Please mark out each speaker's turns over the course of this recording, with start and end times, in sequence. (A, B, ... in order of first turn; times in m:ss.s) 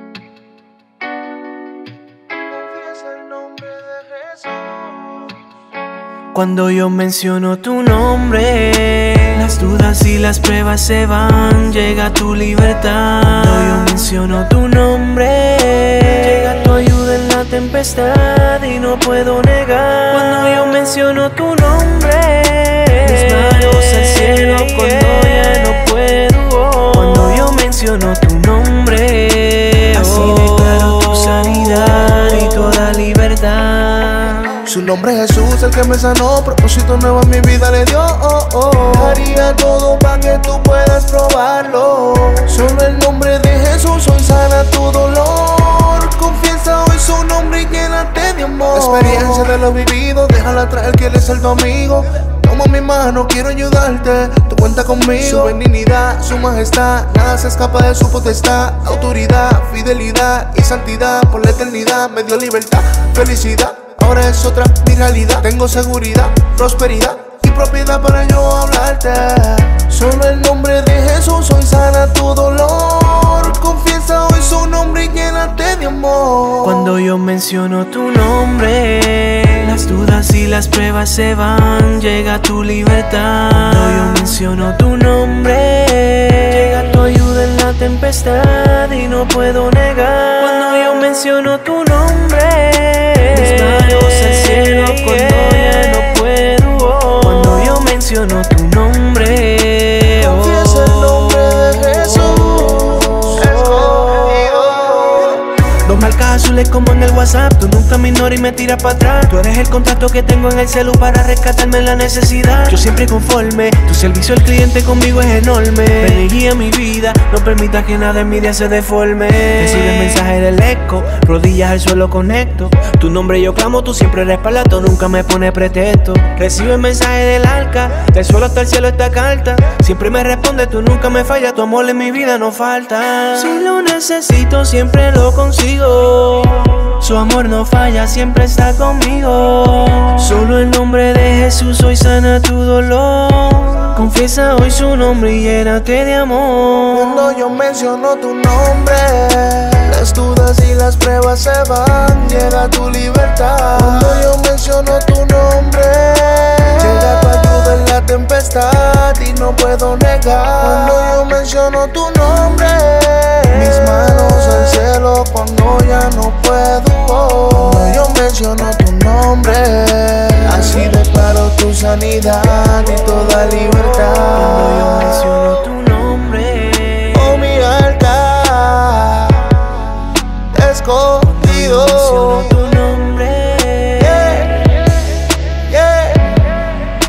0:02.5-0:05.4 A
0:06.3-0:34.6 B
0:30.0-0:30.5 A
0:34.6-1:16.9 A
1:16.6-1:42.0 B
1:40.2-1:45.4 A
1:43.3-1:43.9 B
1:45.7-2:27.2 B
2:26.9-2:55.4 A
2:54.3-2:57.3 B
2:57.1-2:59.9 A
3:00.5-3:02.8 A
3:01.2-3:04.7 B
3:04.0-3:06.5 A